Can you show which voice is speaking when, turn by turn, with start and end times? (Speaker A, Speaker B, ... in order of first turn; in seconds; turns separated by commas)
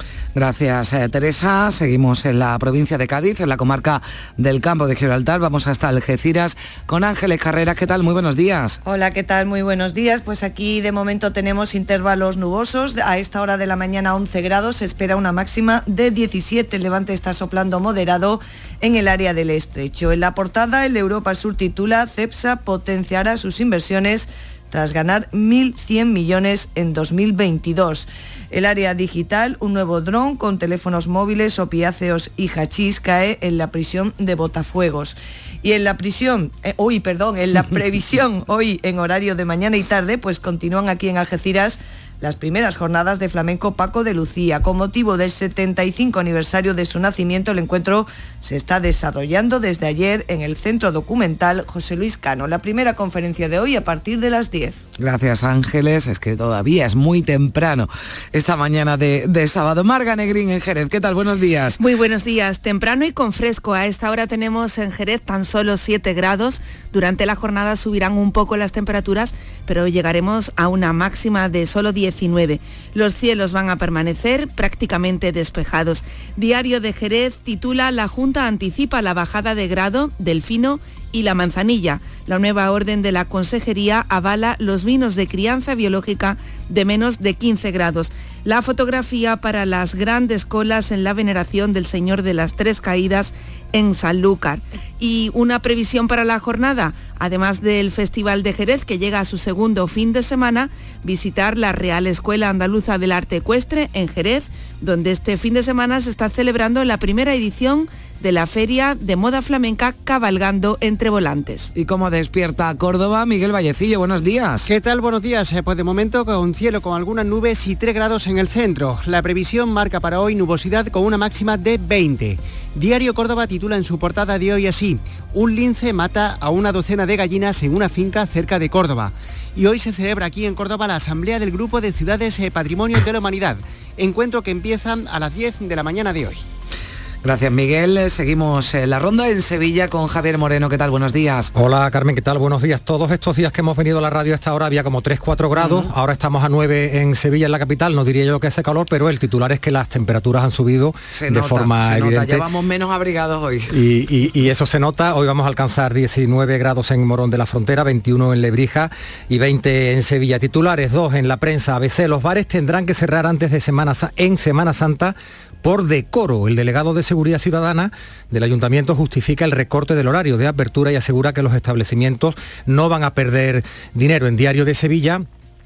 Speaker A: 0.3-8.8, Speaker B: 8.8-54.8, Speaker A: 55.0-61.8, Speaker C: 61.8-111.7, Speaker A: 111.7-114.7, Speaker D: 114.7-136.4, Speaker A: 137.2-141.5, Speaker E: 141.5-152.4, Speaker A: 145.5-145.9, Speaker A: 151.1-153.7, Speaker E: 153.7-175.2